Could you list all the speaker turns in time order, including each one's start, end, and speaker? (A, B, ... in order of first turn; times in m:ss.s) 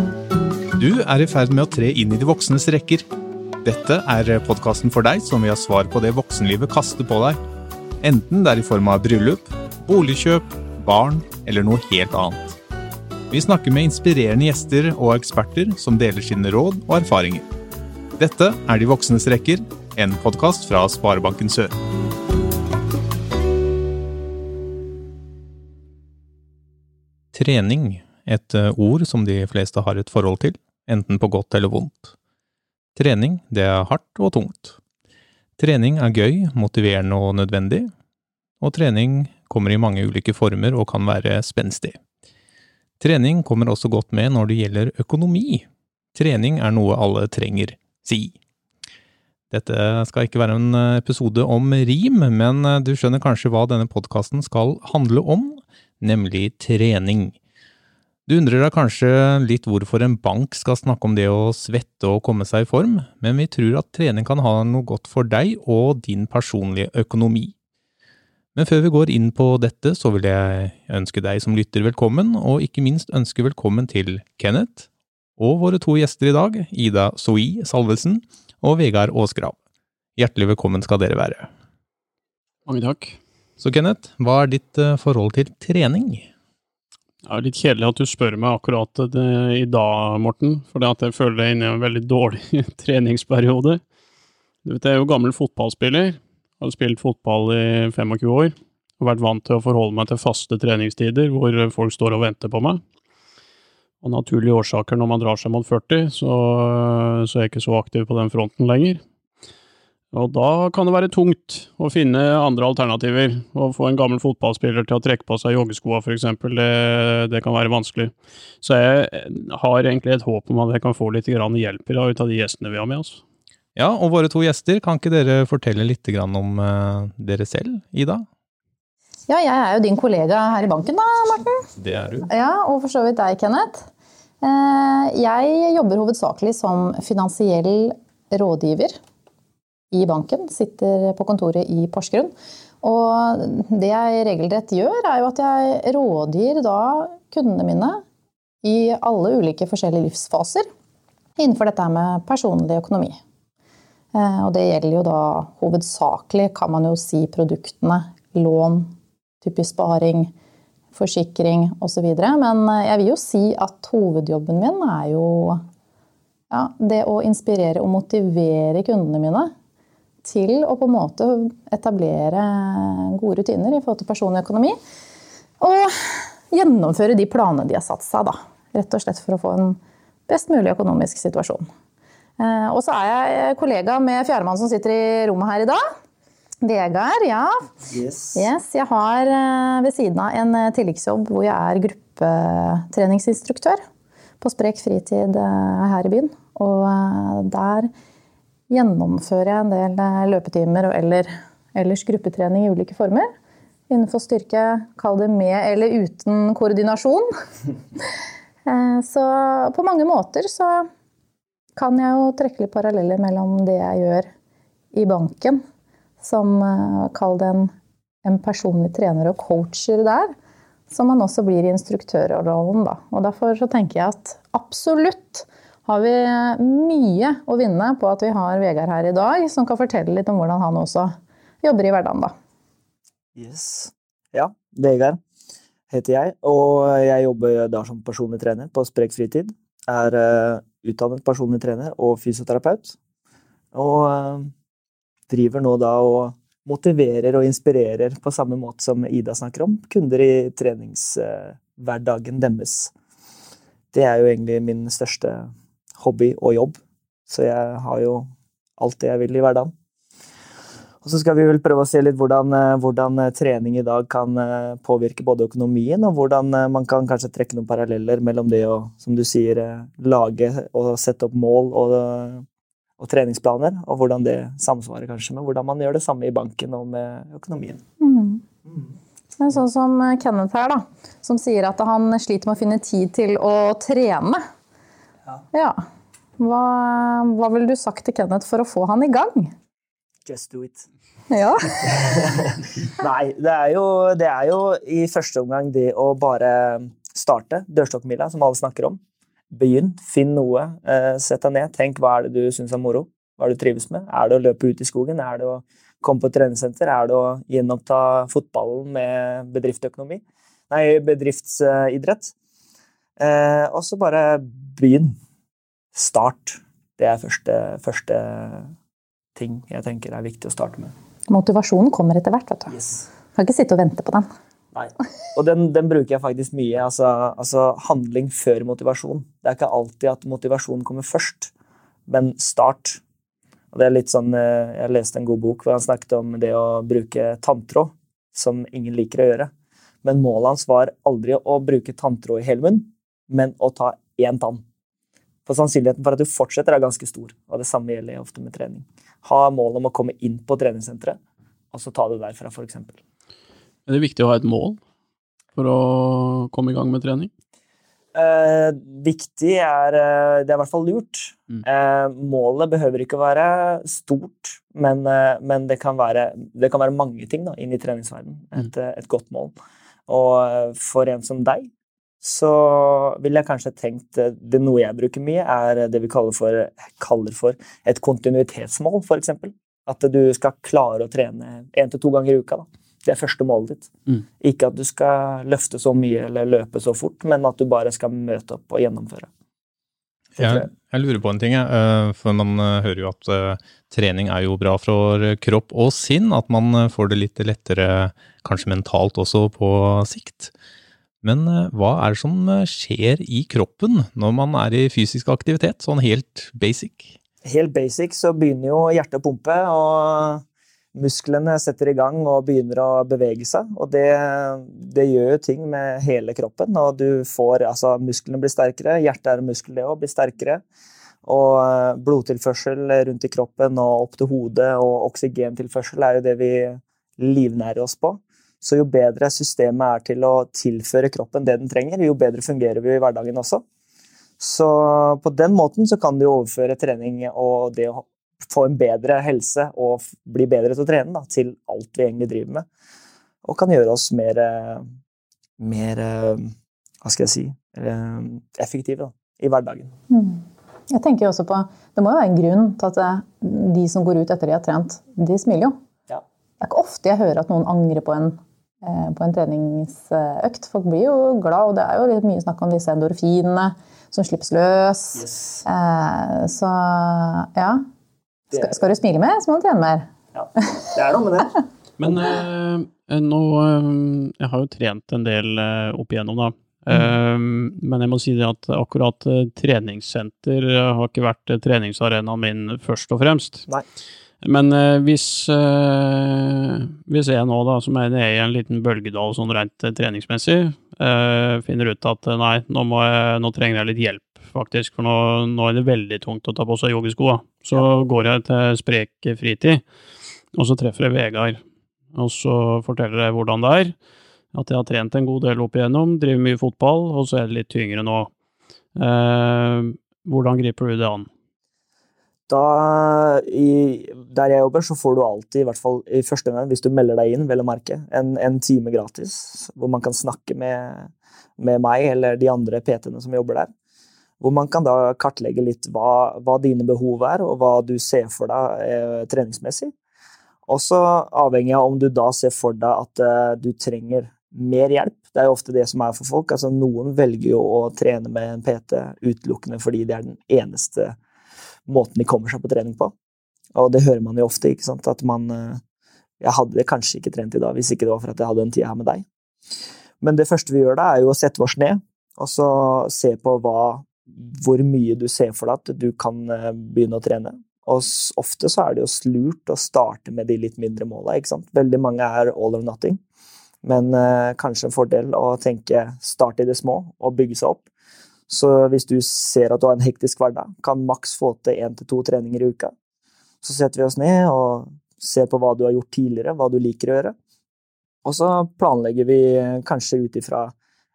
0:00.8-0:03.0 A
0:03.6-0:07.4 A
0:08.0-0:12.6 A
0:13.3-0:17.4 A
0:18.2-0:21.7 A
0:27.3-0:32.1 A
0:33.0-0:34.8 A
0:35.6-0:37.9 A
0:38.6-0:42.0 A
0:43.0-0:48.4 A
0:49.5-0:57.4 A
0:58.3-1:07.5 A
1:08.5-1:19.6 A
1:20.2-1:21.5 A
1:22.6-1:23.2 B
1:23.6-1:26.3 A
1:27.2-1:33.8 B
1:34.6-1:42.8 B
1:44.0-1:49.0 B
1:50.1-2:03.2 B
2:03.7-2:08.2 A
2:09.3-2:11.6 C
2:11.8-2:12.2 A
2:12.2-2:13.9 C
2:14.4-2:19.0 C
2:19.9-2:28.0 C
2:28.6-2:30.7 C
2:31.4-2:33.2 C
2:34.1-2:38.9 C
2:39.4-2:40.3 C
2:40.9-2:45.6 C
2:46.5-2:49.5 C
2:50.2-2:54.8 C
2:55.6-3:01.6 C
3:02.4-3:05.8 C
3:06.6-3:07.7 C
3:07.8-3:08.4 D
3:08.3-3:13.8 C
3:14.4-3:17.9 C
3:18.7-3:23.3 C
3:23.9-3:27.3 C
3:28.6-3:30.9 C
3:31.8-3:34.3 C
3:34.9-3:35.6 C
3:36.2-3:37.7 C
3:38.2-3:40.3 C
3:40.9-3:52.3 C
3:53.4-3:55.2 D
3:55.9-4:02.9 D
4:03.7-4:04.5 D
4:05.3-4:12.9 D
4:13.9-4:18.3 D
4:18.8-4:19.7 D
4:21.0-4:32.4 D
4:33.0-4:37.8 D
4:38.0-4:38.4 C
4:39.4-4:44.4 C
4:45.5-4:45.8 C
4:46.4-4:49.5 C
4:50.2-4:50.8 D
4:51.3-4:52.0 C
4:51.8-4:59.0 D
4:59.5-5:12.3 D
5:13.2-5:15.2 D
5:15.9-5:18.7 D
5:19.3-5:20.9 D
5:21.3-5:22.8 C
5:22.7-5:23.0 D
5:23.3-5:24.3 C
5:24.7-5:31.5 D
5:32.1-5:33.0 D
5:33.7-5:39.5 D
5:40.0-5:44.6 D
5:45.4-5:51.2 D
5:51.7-5:53.0 D
5:53.9-5:54.8 B
5:55.6-5:57.3 B
5:58.1-6:09.5 D
6:10.1-6:11.7 D
6:12.2-6:29.3 D
6:30.4-6:40.5 A
6:30.4-6:30.7 D
6:41.2-6:47.1 A
6:47.4-6:50.4 D
6:50.9-7:00.6 D
7:01.2-7:13.6 D
7:14.4-7:22.6 D
7:23.4-7:24.8 D
7:25.6-7:29.9 D
7:30.1-7:35.8 C
7:36.6-7:47.8 C
7:45.2-7:45.6 D
7:48.5-7:50.1 C
7:50.3-7:51.5 D
7:52.0-8:03.7 B
8:04.4-8:19.8 B
8:20.5-8:21.6 B
8:22.1-8:23.9 B
8:24.5-8:28.3 B
8:29.0-8:31.3 B
8:32.5-8:43.7 D
8:44.4-8:49.9 D
8:50.7-9:01.2 D
9:01.9-9:03.1 D
9:03.7-9:05.8 D
9:06.4-9:09.2 D
9:10.2-9:23.2 D
9:23.8-9:27.8 D
9:28.5-9:32.9 D
9:33.6-9:37.3 D
9:38.2-9:40.7 D